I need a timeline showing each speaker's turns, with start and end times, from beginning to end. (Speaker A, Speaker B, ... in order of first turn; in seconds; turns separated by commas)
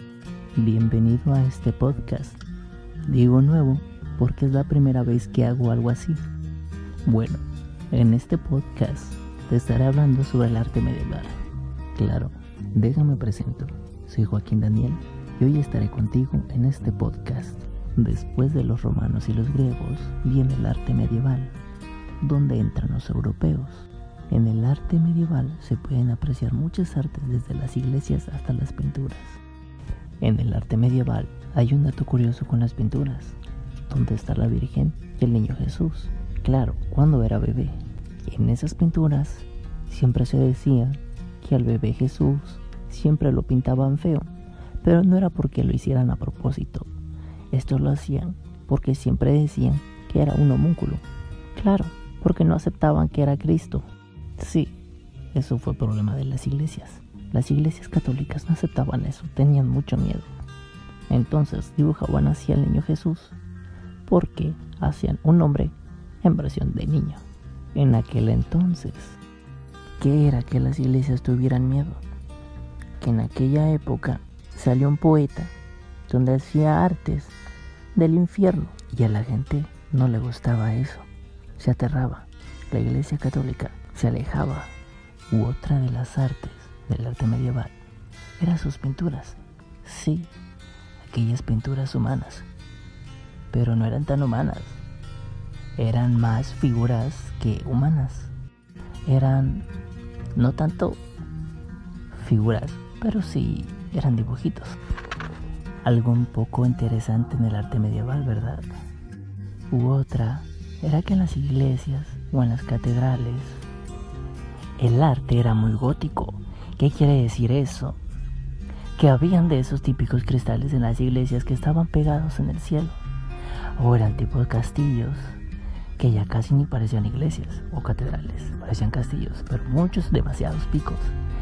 Speaker A: 0.6-2.4, Speaker A: 3.1-6.2, Speaker A: 7.0-11.3, Speaker A: 11.9-21.6, Speaker A: 22.2-29.4, Speaker A: 30.2-33.4, Speaker A: 33.9-44.3, Speaker A: 44.8-46.9, Speaker A: 47.5-51.0, Speaker A: 51.5-53.9, Speaker A: 54.4-54.8, Speaker A: 55.3-60.3, Speaker A: 61.1-63.4, Speaker A: 64.0-67.2, Speaker A: 67.8-69.2, Speaker A: 70.0-72.0, Speaker A: 73.0-75.5, Speaker A: 76.1-77.3, Speaker A: 78.0-84.7, Speaker A: 85.3-87.7, Speaker A: 88.4-90.3, Speaker A: 91.1-92.5, Speaker A: 93.5-94.8, Speaker A: 95.8-98.3, Speaker A: 99.1-99.7, Speaker A: 100.4-101.0, Speaker A: 102.1-104.8, Speaker A: 105.8-108.7, Speaker A: 109.7-113.7, Speaker A: 114.8-118.0, Speaker A: 119.0-123.0, Speaker A: 123.8-125.4, Speaker A: 126.0-131.2